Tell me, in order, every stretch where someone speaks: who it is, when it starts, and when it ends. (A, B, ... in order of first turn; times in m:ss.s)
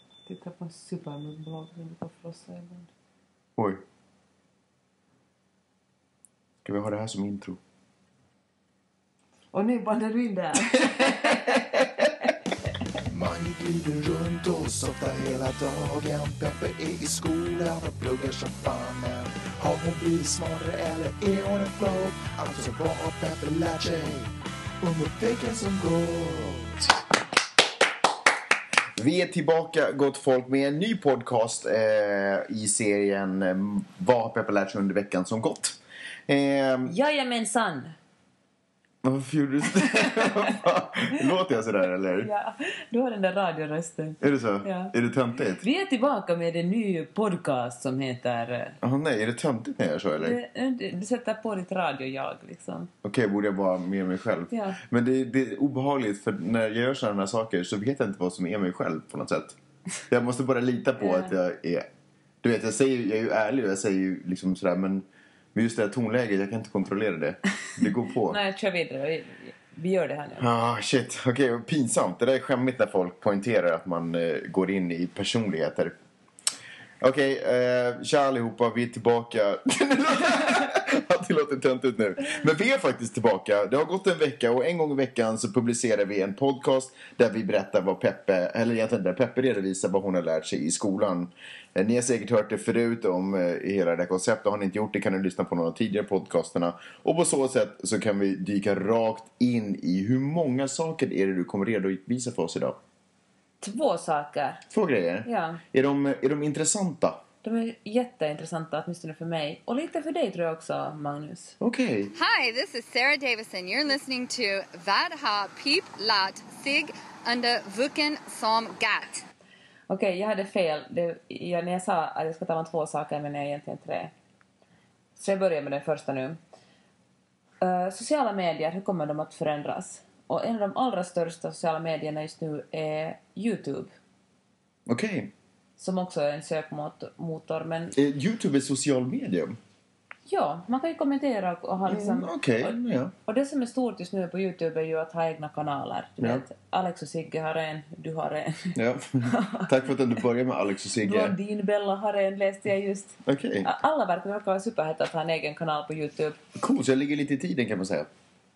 0:00.2-0:02.9 A
0:03.6-0:03.8 B
0:06.6-0:07.6 B
0:09.5-0:11.6 A
0:10.7-0:11.8 B
0:13.1-0:26.9 C
0:29.0-0:37.0 B
0:36.8-0:37.9 A
0:39.0-0:42.3 B
0:39.9-0:40.6 A
0:42.2-0:44.9 A
0:44.2-0:45.6 B
0:45.6-0:48.8 A
0:48.8-0:50.4 B
0:50.2-0:52.9 A
0:53.0-0:59.6 B
0:54.5-0:54.8 A
1:00.1-1:01.8 B
1:01.0-1:01.3 A
1:02.4-1:08.4 B
1:08.2-1:10.5 A
1:10.4-1:15.9 B
1:17.0-1:42.8 B
1:43.6-1:44.6 A
1:44.7-1:47.2 B
1:45.2-1:45.6 A
1:47.4-1:51.6 A
1:51.6-1:52.1 B
1:52.1-1:59.2 D
1:59.9-2:04.1 A
2:05.2-2:06.4 A
2:07.6-2:13.9 A
2:14.9-2:15.3 B
2:15.8-2:18.0 A
2:17.9-2:19.6 B
2:20.3-2:29.7 A
2:21.8-2:23.1 B
2:28.7-2:31.4 B
2:31.0-2:36.4 A
2:33.2-2:33.7 B
2:36.6-2:38.1 B